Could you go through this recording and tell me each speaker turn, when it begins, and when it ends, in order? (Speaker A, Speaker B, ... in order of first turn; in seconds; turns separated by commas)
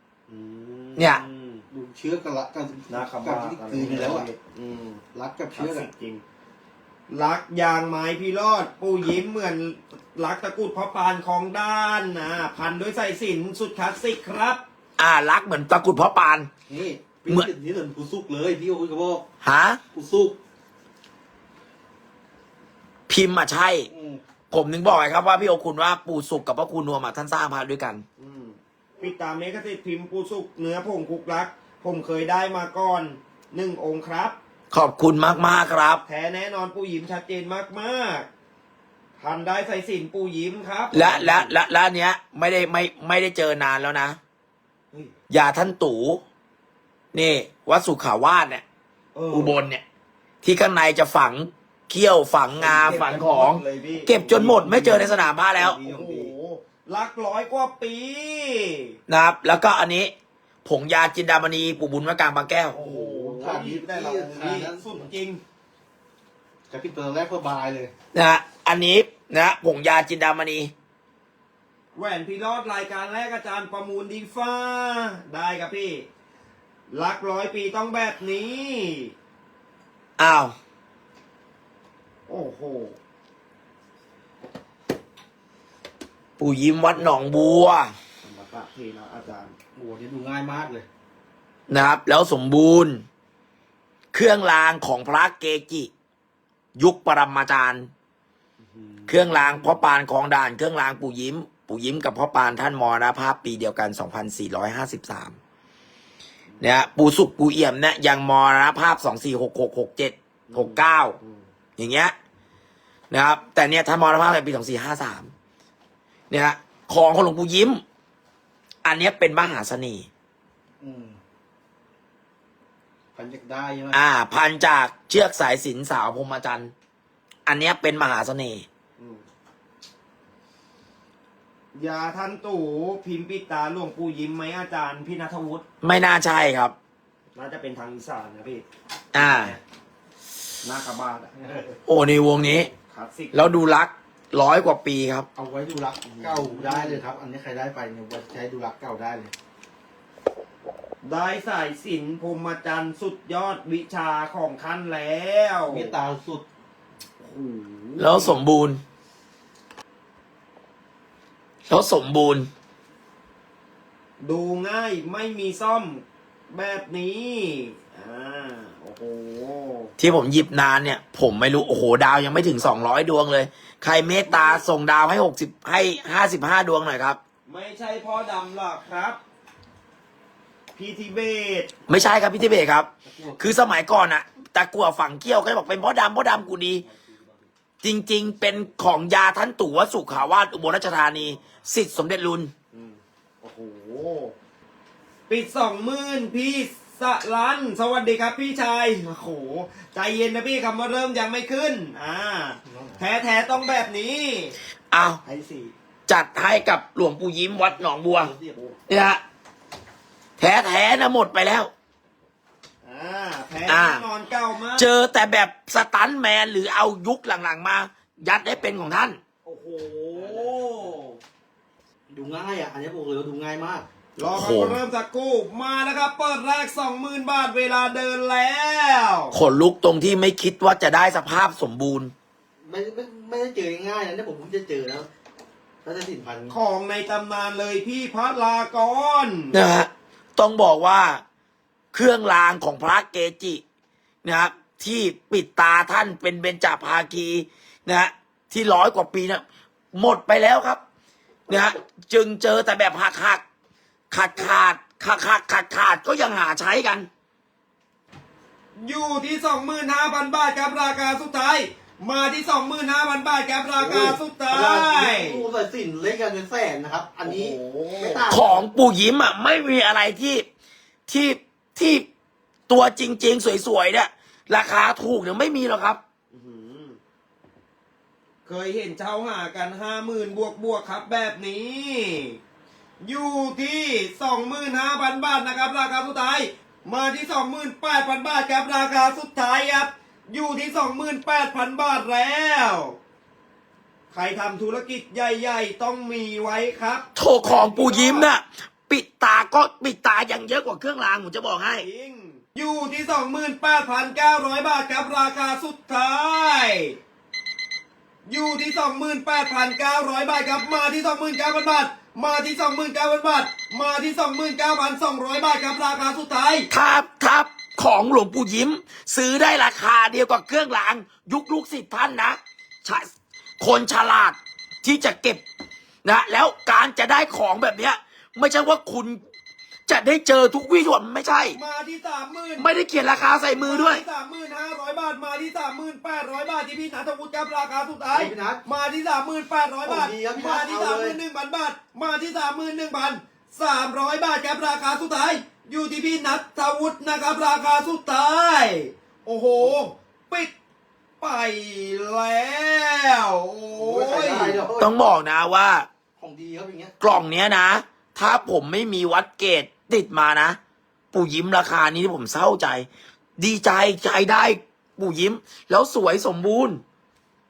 Speaker A: 0.3-1.6, Speaker B: 1.0-1.2, Speaker C: 1.7-4.3, Speaker A: 2.9-5.0, Speaker C: 5.1-5.9, Speaker A: 5.5-6.2, Speaker A: 7.1-14.6, Speaker B: 15.0-16.5, Speaker C: 16.7-19.2, Speaker B: 19.4-19.8, Speaker C: 19.9-20.4, Speaker B: 23.1-23.9, Speaker C: 23.9-24.2, Speaker B: 24.5-28.0, Speaker A: 28.2-34.4, Speaker B: 34.7-36.0, Speaker A: 36.0-38.3, Speaker A: 39.2-41.5, Speaker B: 40.9-44.2, Speaker B: 45.3-46.2, Speaker B: 47.1-48.6, Speaker A: 49.1-49.6, Speaker B: 49.3-49.8, Speaker B: 50.4-55.8, Speaker A: 52.6-54.5, Speaker C: 54.3-56.3, Speaker A: 55.8-59.0, Speaker B: 59.1-60.1, Speaker B: 60.6-62.8, Speaker A: 62.7-65.4, Speaker C: 62.8-65.1, Speaker C: 66.7-67.9, Speaker B: 68.1-70.7, Speaker A: 72.0-76.1, Speaker A: 76.9-79.1, Speaker B: 80.2-80.5, Speaker A: 82.3-83.0, Speaker B: 86.4-87.9, Speaker A: 88.2-89.5, Speaker C: 89.8-90.9, Speaker B: 91.7-93.0, Speaker B: 94.1-95.9, Speaker B: 96.8-97.9, Speaker A: 98.6-99.8, Speaker B: 99.1-105.3, Speaker B: 106.6-111.2, Speaker A: 110.5-111.5, Speaker B: 111.8-112.1, Speaker B: 113.1-115.3, Speaker B: 116.3-117.8, Speaker B: 118.8-120.1, Speaker C: 120.8-121.2, Speaker C: 123.2-124.0, Speaker B: 123.9-126.7, Speaker B: 127.5-128.7, Speaker A: 129.0-129.2, Speaker A: 131.7-135.6, Speaker B: 135.8-136.8, Speaker A: 137.3-138.6, Speaker B: 139.1-139.6, Speaker A: 139.2-139.6, Speaker A: 140.6-141.8, Speaker B: 141.9-142.7, Speaker A: 142.7-143.5, Speaker B: 143.3-145.3, Speaker C: 145.4-149.3, Speaker A: 146.0-147.0, Speaker A: 151.0-156.0, Speaker C: 155.7-156.4, Speaker A: 157.2-158.4, Speaker B: 158.0-158.8, Speaker B: 161.7-162.5, Speaker A: 164.2-169.9, Speaker B: 170.0-177.2, Speaker A: 174.3-174.6, Speaker A: 177.5-179.2, Speaker A: 180.8-181.7, Speaker B: 181.9-186.8, Speaker C: 183.1-183.6, Speaker A: 186.8-187.5, Speaker B: 187.8-192.5, Speaker A: 192.7-194.3, Speaker A: 195.3-204.6, Speaker C: 202.7-203.0, Speaker B: 204.9-205.2, Speaker A: 205.2-205.7, Speaker B: 206.1-208.3, Speaker C: 207.6-208.6, Speaker B: 208.9-209.2, Speaker B: 210.4-211.7, Speaker A: 212.8-214.9, Speaker B: 213.7-214.0, Speaker B: 214.8-219.2, Speaker A: 219.4-221.2, Speaker C: 220.2-220.9, Speaker C: 222.1-223.9, Speaker A: 224.2-229.4, Speaker B: 224.3-224.8, Speaker B: 229.3-232.1, Speaker C: 232.6-235.1, Speaker C: 235.8-236.6, Speaker A: 236.5-239.6, Speaker B: 239.5-241.2, Speaker B: 241.9-243.6, Speaker B: 244.2-249.4, Speaker B: 249.9-250.8, Speaker B: 251.5-253.4, Speaker B: 254.1-257.1, Speaker A: 258.8-265.4, Speaker C: 263.8-268.6, Speaker A: 267.2-268.4, Speaker B: 268.3-270.4, Speaker B: 271.1-272.1, Speaker B: 272.7-276.0, Speaker A: 276.3-277.0, Speaker A: 278.5-282.4, Speaker A: 283.0-293.0, Speaker A: 294.1-298.3, Speaker B: 297.1-301.9, Speaker A: 301.8-307.0, Speaker A: 308.3-316.7, Speaker B: 316.7-323.1, Speaker B: 323.6-325.4, Speaker B: 326.1-329.2, Speaker B: 329.9-331.6, Speaker A: 331.5-332.7, Speaker B: 332.6-334.0, Speaker A: 333.6-350.5, Speaker C: 338.1-338.6, Speaker C: 339.9-341.2, Speaker A: 351.2-354.6, Speaker C: 353.7-354.9, Speaker B: 354.8-355.9, Speaker C: 356.2-356.9, Speaker B: 357.0-360.6, Speaker B: 361.1-362.9, Speaker B: 363.4-366.8